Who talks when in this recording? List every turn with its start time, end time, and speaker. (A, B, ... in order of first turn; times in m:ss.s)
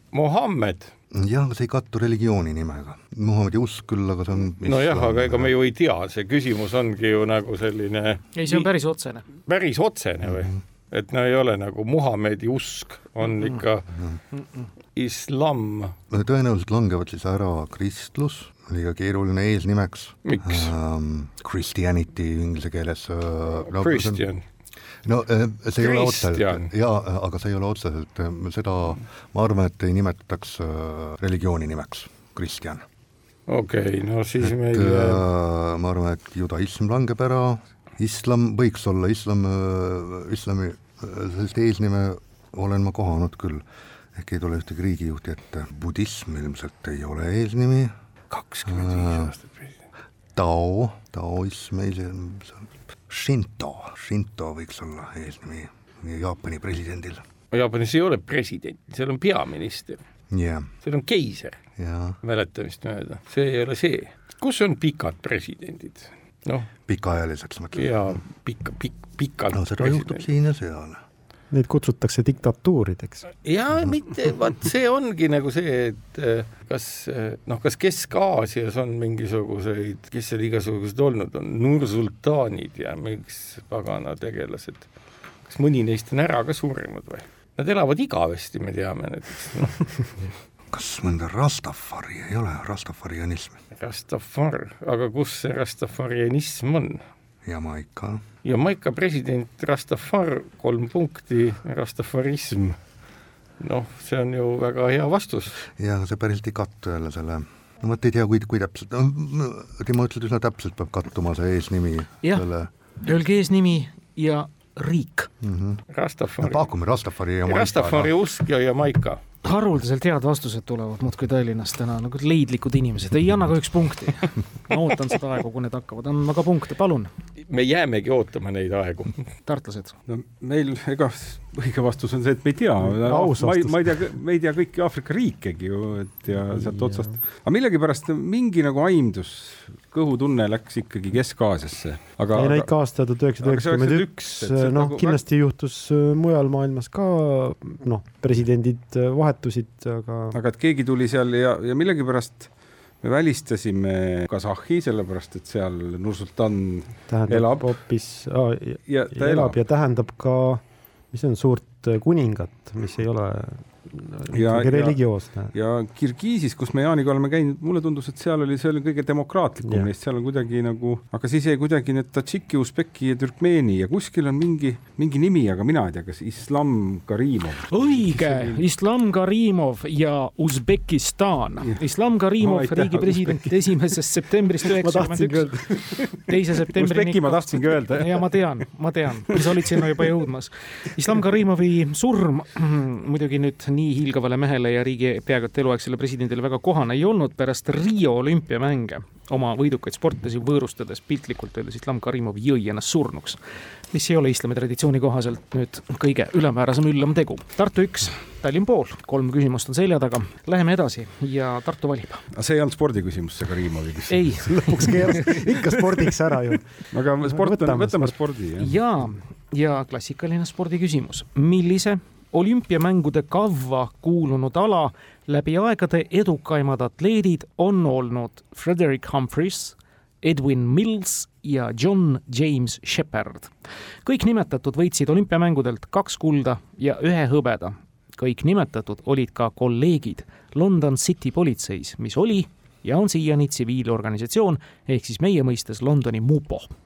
0:00.1-0:00.9 A
0:01.1-0:05.5 B
0:04.6-0:08.7 A
0:08.3-0:09.3 C
0:09.4-0:13.9 A
0:10.2-0:10.6 B
0:13.9-0:14.2 B
0:14.3-0:14.7 C
0:14.9-0:15.9 A
0:16.1-0:24.2 B
0:20.2-0:20.7 A
0:23.7-0:24.4 A
0:25.0-0:32.8 B
0:25.8-0:26.7 A
0:33.5-0:35.2 A
0:34.4-0:43.6 B
0:44.2-0:47.9 B
0:48.3-0:49.7 A
0:48.6-0:49.3 B
0:50.4-0:57.2 B
0:57.5-1:00.0 A
1:00.3-1:00.7 B
1:00.8-1:01.6 A
1:01.8-1:02.2 B
1:02.2-1:06.7 A
1:06.9-1:08.2 B
1:07.7-1:10.2 A
1:09.5-1:11.0 B
1:11.5-1:13.3 D
1:13.4-1:24.9 A
1:25.4-1:29.9 A
1:30.7-1:33.6 B
1:33.7-1:37.0 A
1:37.4-1:38.2 B
1:38.4-1:42.8 A
1:43.6-1:45.6 A
1:45.7-1:52.7 B
1:53.0-1:55.3 C
1:55.4-1:55.8 B
1:55.9-1:56.7 A
1:56.4-1:58.1 B
1:57.4-1:59.2 A
1:59.4-2:07.1 C
2:07.5-2:09.3 A
2:09.4-2:09.9 C
2:10.1-2:22.7 E
2:12.8-2:14.0 D
2:16.5-2:17.1 D
2:22.3-2:30.4 D
2:23.4-2:25.2 E
2:30.3-2:32.5 E
2:33.0-2:37.8 E
2:37.1-2:45.5 D
2:38.8-2:39.6 E
2:44.3-2:58.6 E
2:57.7-3:05.5 C
3:02.4-3:03.8 E
3:04.8-3:06.0 D
3:05.9-3:08.5 E
3:06.2-3:23.4 C
3:09.3-3:10.0 E
3:23.9-3:32.2 C
3:32.3-3:36.0 E
3:34.1-3:35.3 C
3:34.4-3:38.1 D
3:36.9-3:38.8 E
3:38.6-3:53.5 C
3:54.0-4:06.7 C